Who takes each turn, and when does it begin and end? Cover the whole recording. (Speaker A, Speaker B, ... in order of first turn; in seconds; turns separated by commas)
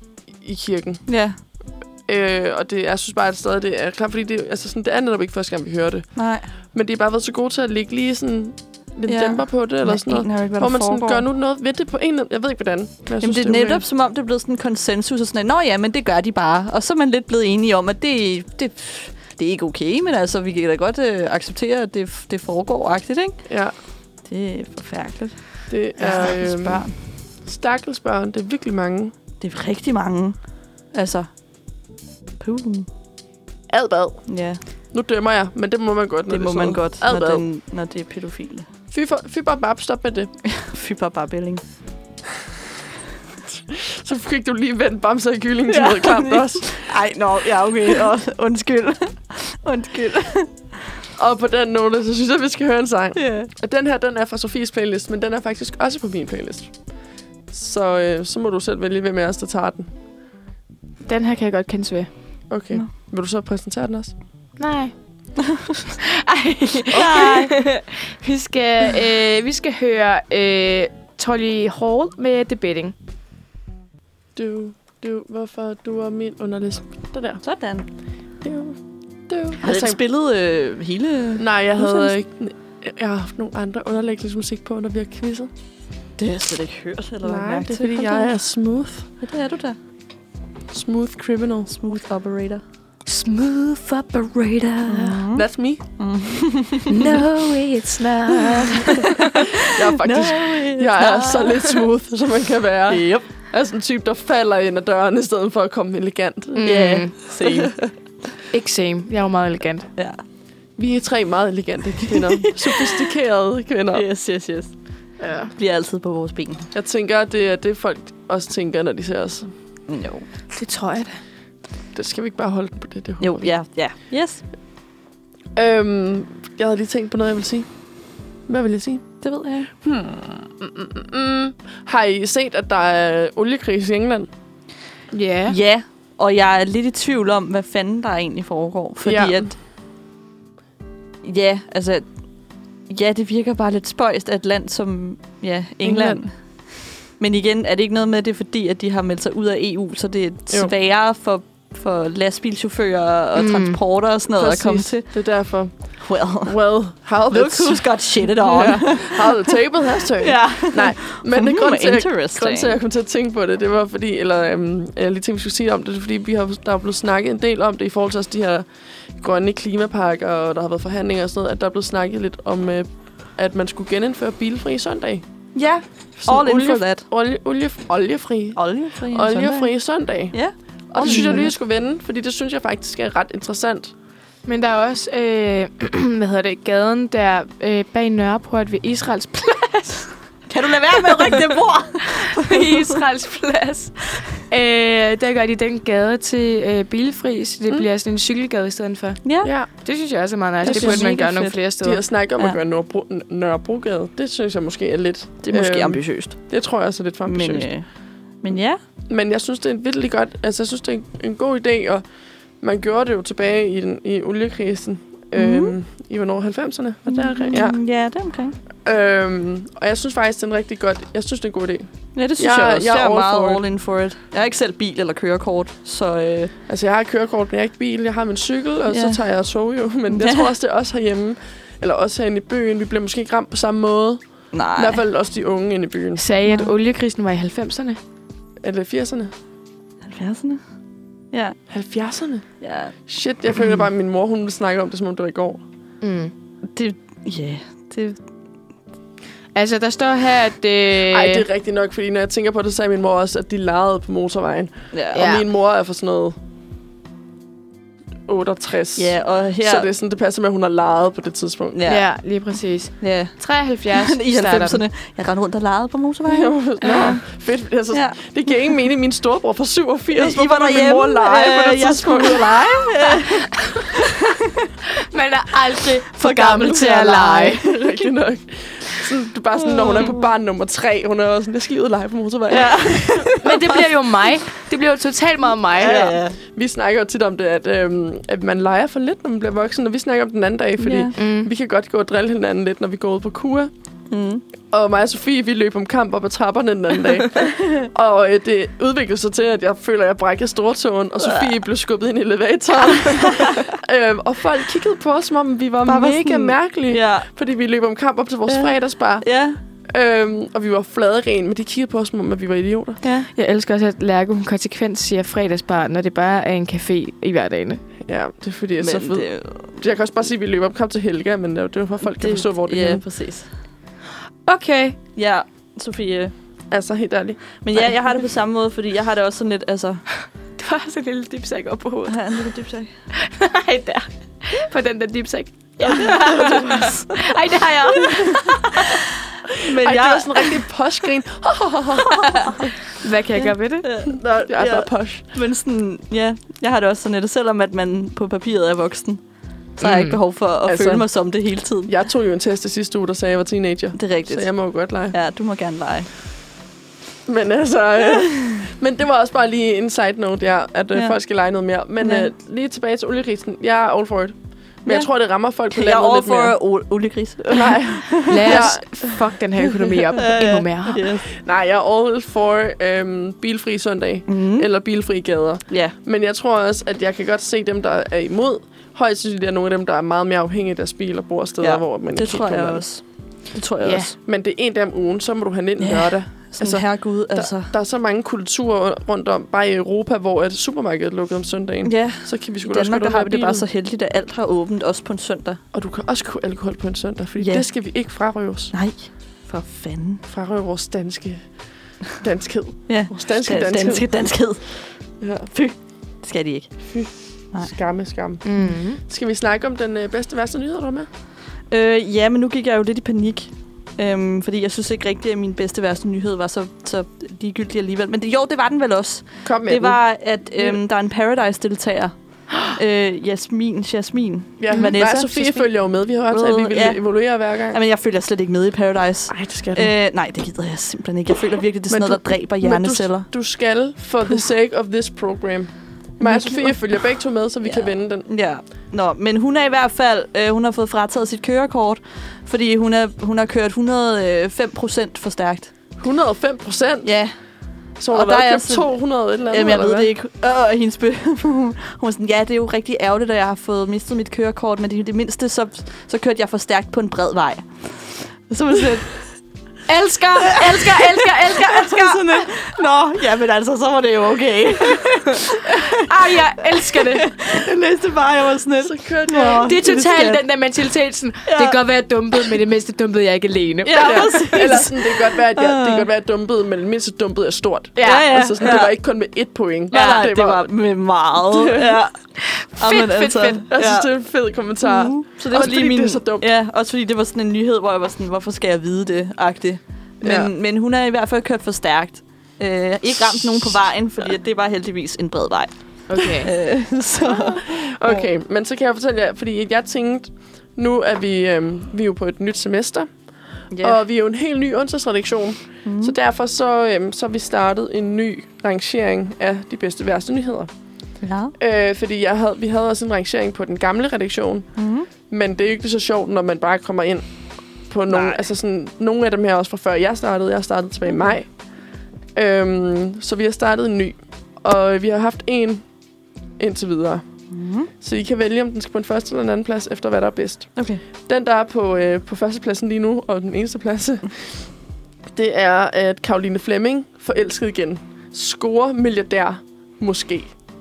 Speaker A: 0.3-1.1, Speaker B: 1.1-1.4, Speaker A: 2.0-13.8, Speaker B: 6.1-6.5, Speaker B: 9.1-11.2, Speaker B: 13.2-23.4, Speaker A: 23.4-23.7, Speaker B: 24.2-26.9, Speaker A: 25.7-26.8, Speaker A: 27.4-29.1, Speaker B: 29.4-31.3, Speaker B: 32.4-32.9, Speaker A: 33.7-34.3, Speaker B: 34.3-34.6, Speaker A: 34.9-37.4, Speaker B: 36.3-38.7, Speaker A: 38.9-40.3, Speaker B: 40.4-41.6, Speaker A: 43.5-46.9, Speaker B: 45.7-50.7, Speaker A: 51.2-56.9, Speaker B: 53.1-53.5, Speaker A: 57.5-59.9, Speaker C: 61.0-62.1, Speaker A: 62.5-64.1, Speaker C: 64.6-64.9, Speaker C: 66.0-72.9, Speaker B: 66.9-67.5, Speaker A: 66.9-67.4, Speaker A: 74.3-77.4, Speaker B: 77.4-77.9, Speaker A: 78.4-78.8, Speaker A: 79.3-80.0, Speaker B: 79.6-82.1, Speaker A: 81.4-85.5, Speaker B: 86.2-88.3, Speaker A: 87.2-89.1, Speaker B: 89.2-89.8, Speaker A: 90.7-91.8, Speaker B: 91.7-92.6, Speaker C: 93.0-95.2, Speaker B: 94.8-95.5, Speaker A: 95.3-95.8, Speaker B: 96.0-97.2, Speaker C: 96.9-99.4, Speaker B: 98.7-101.7, Speaker A: 99.6-106.7, Speaker B: 102.9-103.3, Speaker C: 106.5-107.5, Speaker B: 106.6-107.7, Speaker A: 107.4-107.9, Speaker C: 108.5-109.9, Speaker B: 110.0-110.2, Speaker A: 110.8-114.0, Speaker B: 112.1-113.0, Speaker B: 113.9-116.7, Speaker C: 115.2-115.5, Speaker A: 116.7-119.5, Speaker B: 119.9-120.3, Speaker C: 120.5-121.2, Speaker A: 121.9-123.5, Speaker B: 123.2-124.4, Speaker A: 125.5-127.8, Speaker A: 128.5-129.1, Speaker B: 129.2-129.7, Speaker A: 129.8-134.3, Speaker C: 135.1-135.6, Speaker B: 135.5-139.6, Speaker A: 139.0-139.4, Speaker B: 141.2-142.2, Speaker B: 142.8-155.1, Speaker A: 145.8-146.2, Speaker C: 153.4-153.8, Speaker A: 154.3-175.2, Speaker B: 156.0-156.6, Speaker B: 157.3-162.8, Speaker B: 175.5-177.0, Speaker A: 176.2-183.9, Speaker B: 178.6-179.7, Speaker B: 180.3-181.5, Speaker C: 181.0-181.5, Speaker C: 184.4-190.1, Speaker B: 190.5-193.0, Speaker C: 190.9-202.0, Speaker B: 199.2-199.5, Speaker A: 199.4-199.7, Speaker A: 200.6-201.2, Speaker B: 200.6-201.6, Speaker A: 201.8-207.7, Speaker B: 205.4-206.4, Speaker B: 207.2-207.9, Speaker B: 208.4-208.8, Speaker A: 209.1-212.0, Speaker A: 212.6-217.8, Speaker B: 215.3-215.8, Speaker B: 217.1-218.6, Speaker A: 218.8-223.6, Speaker B: 222.1-226.5, Speaker A: 226.7-236.2, Speaker B: 228.9-229.2, Speaker B: 230.1-230.5, Speaker B: 234.5-235.0, Speaker C: 236.2-238.0, Speaker A: 238.6-239.3, Speaker B: 240.0-240.6, Speaker B: 241.3-241.6, Speaker A: 241.7-242.4, Speaker B: 242.6-242.9, Speaker A: 243.1-245.6, Speaker C: 246.0-246.3, Speaker B: 246.7-248.2, Speaker C: 249.5-251.4, Speaker A: 251.1-256.4, Speaker B: 254.9-255.3, Speaker C: 255.1-255.4, Speaker A: 258.3-261.8, Speaker B: 258.9-259.9, Speaker B: 261.7-262.1, Speaker C: 261.9-264.8, Speaker B: 263.0-263.4, Speaker B: 263.9-267.2, Speaker A: 266.3-272.9, Speaker C: 266.8-267.2, Speaker B: 267.9-268.2, Speaker B: 270.1-274.5, Speaker C: 275.0-277.6, Speaker B: 276.2-278.0, Speaker A: 277.6-283.4, Speaker B: 279.6-280.2, Speaker B: 282.5-283.8, Speaker C: 283.3-286.2, Speaker B: 285.8-286.4, Speaker A: 285.8-293.7, Speaker B: 290.8-291.1, Speaker C: 291.1-291.5, Speaker B: 294.1-294.4, Speaker A: 294.7-309.2, Speaker B: 297.5-297.9, Speaker B: 303.1-303.7, Speaker B: 305.9-307.3, Speaker B: 308.5-309.6, Speaker A: 309.8-313.0, Speaker C: 313.0-317.8, Speaker A: 318.0-323.0, Speaker B: 318.8-319.8, Speaker B: 322.2-323.5, Speaker C: 324.4-325.0, Speaker B: 325.1-326.3, Speaker A: 326.7-327.9, Speaker B: 327.6-330.0, Speaker C: 330.6-332.4, Speaker B: 332.1-332.9, Speaker C: 333.2-339.0, Speaker B: 335.8-337.3, Speaker B: 338.0-338.9, Speaker B: 339.5-340.6, Speaker A: 339.8-342.7, Speaker B: 342.1-342.6, Speaker C: 342.2-343.9, Speaker B: 343.4-349.2, Speaker A: 344.5-345.2, Speaker B: 349.8-351.9, Speaker C: 349.8-350.2, Speaker A: 350.6-351.2, Speaker A: 351.8-355.1, Speaker B: 353.9-354.5, Speaker B: 355.1-356.1, Speaker A: 357.2-366.6, Speaker B: 362.0-362.3, Speaker B: 365.7-368.7, Speaker A: 367.5-369.2, Speaker C: 368.2-371.1, Speaker B: 370.1-371.3, Speaker A: 371.3-382.8, Speaker B: 374.3-374.7, Speaker B: 375.7-375.9, Speaker B: 381.6-384.1, Speaker C: 383.8-384.1, Speaker A: 384.2-393.7, Speaker B: 385.8-387.7, Speaker B: 391.8-395.6, Speaker A: 395.7-398.7, Speaker B: 397.4-397.7, Speaker B: 398.7-400.2, Speaker A: 400.2-401.5, Speaker A: 402.2-404.1, Speaker B: 402.9-404.9, Speaker A: 405.2-405.5, Speaker B: 405.5-406.8, Speaker A: 406.8-411.1, Speaker C: 408.4-409.0, Speaker B: 411.7-425.7, Speaker A: 419.4-420.0, Speaker A: 424.6-427.8, Speaker B: 426.3-427.1, Speaker B: 427.6-433.3, Speaker A: 429.3-429.9, Speaker A: 431.9-438.3, Speaker B: 436.2-436.9, Speaker B: 437.6-445.7, Speaker A: 446.0-447.1, Speaker B: 447.0-447.4, Speaker A: 448.0-450.1, Speaker B: 448.1-449.0, Speaker B: 449.5-459.2, Speaker C: 459.9-462.6, Speaker B: 460.4-470.4, Speaker C: 464.9-467.6, Speaker A: 468.8-469.7, Speaker C: 469.5-474.9, Speaker B: 471.4-471.8, Speaker B: 473.8-476.1, Speaker A: 473.9-480.7, Speaker C: 477.9-478.8, Speaker B: 478.0-478.9, Speaker B: 479.9-484.1, Speaker C: 479.9-480.2, Speaker A: 481.5-482.0, Speaker C: 482.5-483.6, Speaker A: 483.7-486.5, Speaker B: 484.8-498.2, Speaker A: 490.2-490.5, Speaker C: 496.1-496.5, Speaker A: 497.2-503.2, Speaker B: 503.7-504.0, Speaker A: 503.8-510.7, Speaker B: 505.8-506.2, Speaker B: 511.2-511.5, Speaker A: 511.6-521.6, Speaker B: 514.8-515.1, Speaker B: 518.1-518.5, Speaker A: 522.3-525.9, Speaker A: 526.6-527.2, Speaker B: 527.5-527.9, Speaker A: 528.0-534.7, Speaker B: 530.8-531.0, Speaker A: 535.3-540.5